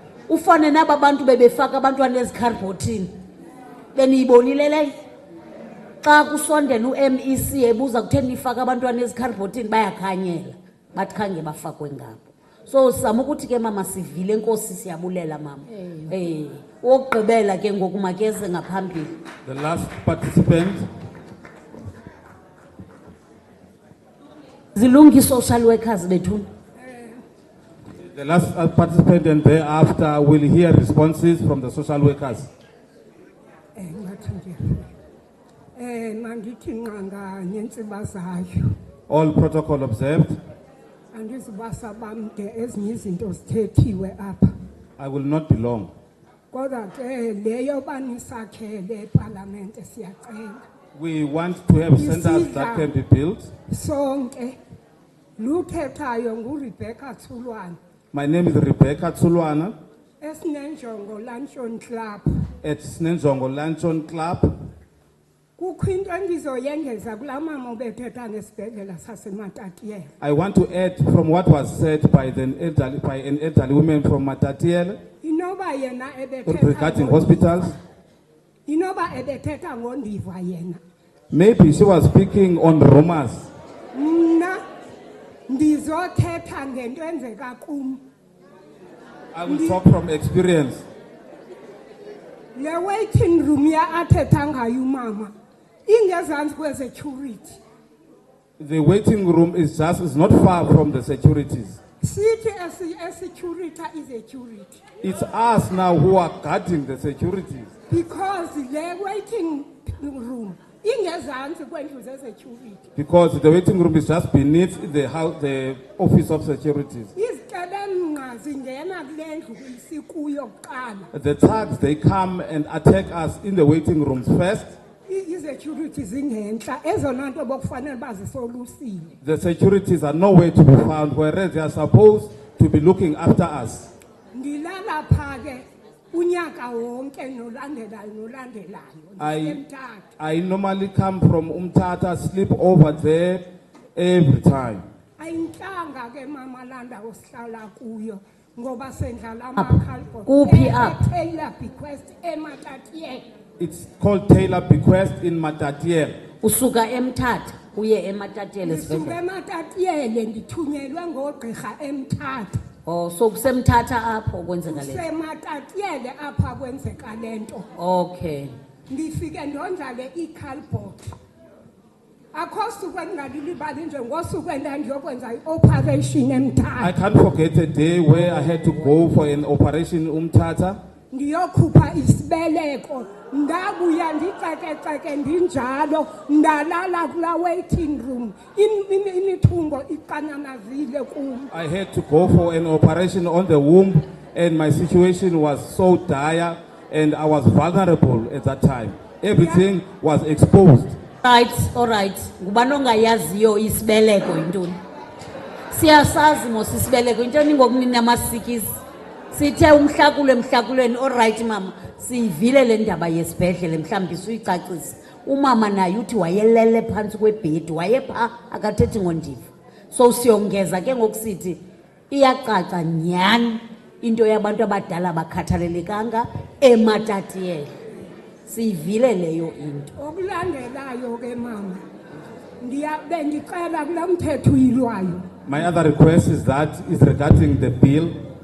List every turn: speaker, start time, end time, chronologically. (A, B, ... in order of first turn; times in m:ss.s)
0:00.3-0:03.1 A
0:04.0-0:04.9 A
0:06.0-0:19.2 A
0:19.4-0:20.9 B
0:24.7-0:26.5 A
0:26.8-0:27.2 C
0:28.1-0:32.5 B
0:33.8-0:34.9 C
0:35.8-0:38.8 C
0:39.1-0:40.4 B
0:41.1-0:44.5 C
0:45.0-0:45.9 B
0:46.5-0:50.6 C
0:50.9-0:53.5 B
0:51.9-0:52.9 C
0:53.7-0:54.6 C
0:55.4-0:57.8 C
0:58.1-0:59.8 B
1:00.2-1:02.5 C
1:02.6-1:04.5 B
1:05.6-1:10.1 C
1:10.2-1:15.0 B
1:15.2-1:17.5 C
1:16.4-1:17.8 B
1:18.7-1:20.8 C
1:21.3-1:23.5 B
1:23.9-1:24.6 C
1:25.5-1:28.0 C
1:29.3-1:30.8 B
1:29.4-1:29.8 C
1:32.6-1:35.3 C
1:35.9-1:37.6 C
1:38.6-1:41.8 B
1:42.0-1:44.8 C
1:45.0-1:47.7 B
1:47.9-1:52.8 C
1:53.0-1:57.1 B
1:57.2-2:01.1 C
2:01.1-2:04.8 B
2:05.1-2:09.1 C
2:09.2-2:13.9 B
2:14.3-2:20.1 C
2:19.2-2:19.6 B
2:20.2-2:23.4 B
2:23.9-2:24.8 B
2:25.2-2:33.2 C
2:29.6-2:31.0 A
2:33.6-2:36.2 B
2:36.4-2:39.2 A
2:38.6-2:42.6 C
2:42.9-2:45.0 A
2:44.7-2:47.6 C
2:47.8-2:48.5 A
2:48.9-2:51.1 C
2:52.3-2:57.0 C
2:56.8-3:00.8 B
3:01.1-3:11.5 C
3:11.5-3:21.0 B
3:19.4-3:19.6 C
3:21.2-3:24.8 A
3:25.7-3:41.6 A
3:42.1-3:47.7 A
3:48.5-3:49.9 A
3:50.0-3:51.8 C
3:52.6-3:55.3 C
3:55.4-3:58.2 B